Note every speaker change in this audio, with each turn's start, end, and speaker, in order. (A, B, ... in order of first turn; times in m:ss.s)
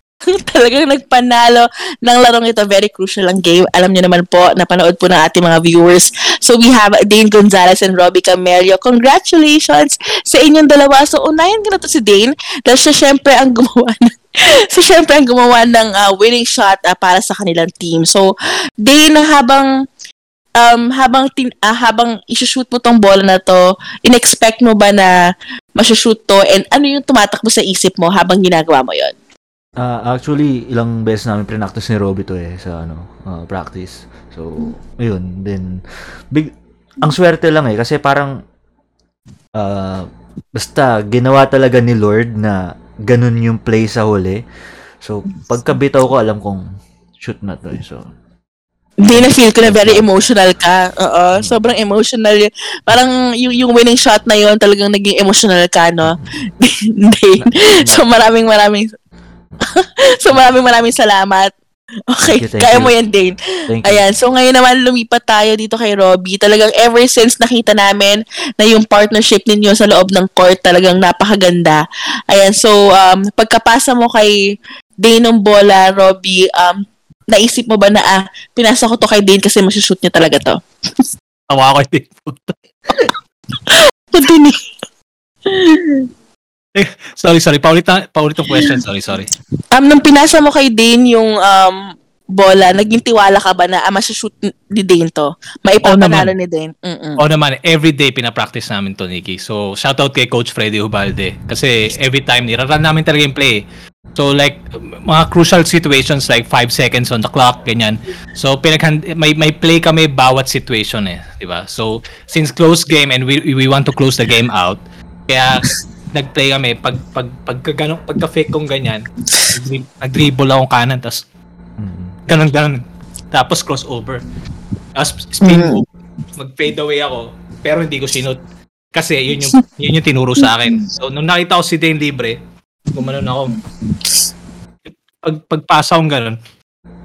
0:00.3-0:14.1 A
0:14.7-0:18.2 A
0:18.8-0:19.7 A
0:20.6-0:25.1 A
0:25.8-0:29.1 A
0:29.8-0:35.8 B
0:37.0-0:38.3 B
0:39.6-0:44.4 B
0:45.0-0:46.7 B
0:47.2-0:48.1 B
0:49.0-0:58.9 A
0:49.1-0:50.0 B
0:57.4-0:58.0 B
0:59.8-1:01.5 A
1:02.1-1:14.3 A
1:02.2-1:02.9 B
1:03.7-1:04.0 B
1:15.0-1:20.6 A
1:21.5-1:22.5 C
1:23.7-1:24.6 A
1:25.5-1:26.0 A
1:26.8-1:29.3 C
1:29.7-1:31.8 A
1:32.4-1:37.2 A
1:35.8-1:36.3 C
1:37.2-1:43.6 C
1:44.1-2:01.2 C
2:01.8-2:02.2 B
2:02.3-2:02.8 C
2:03.3-2:04.2 C
2:05.0-2:05.8 C
2:05.4-2:05.8 A
2:06.4-2:08.4 C
2:08.9-2:12.4 C
2:12.9-2:13.6 C
2:14.9-2:16.4 C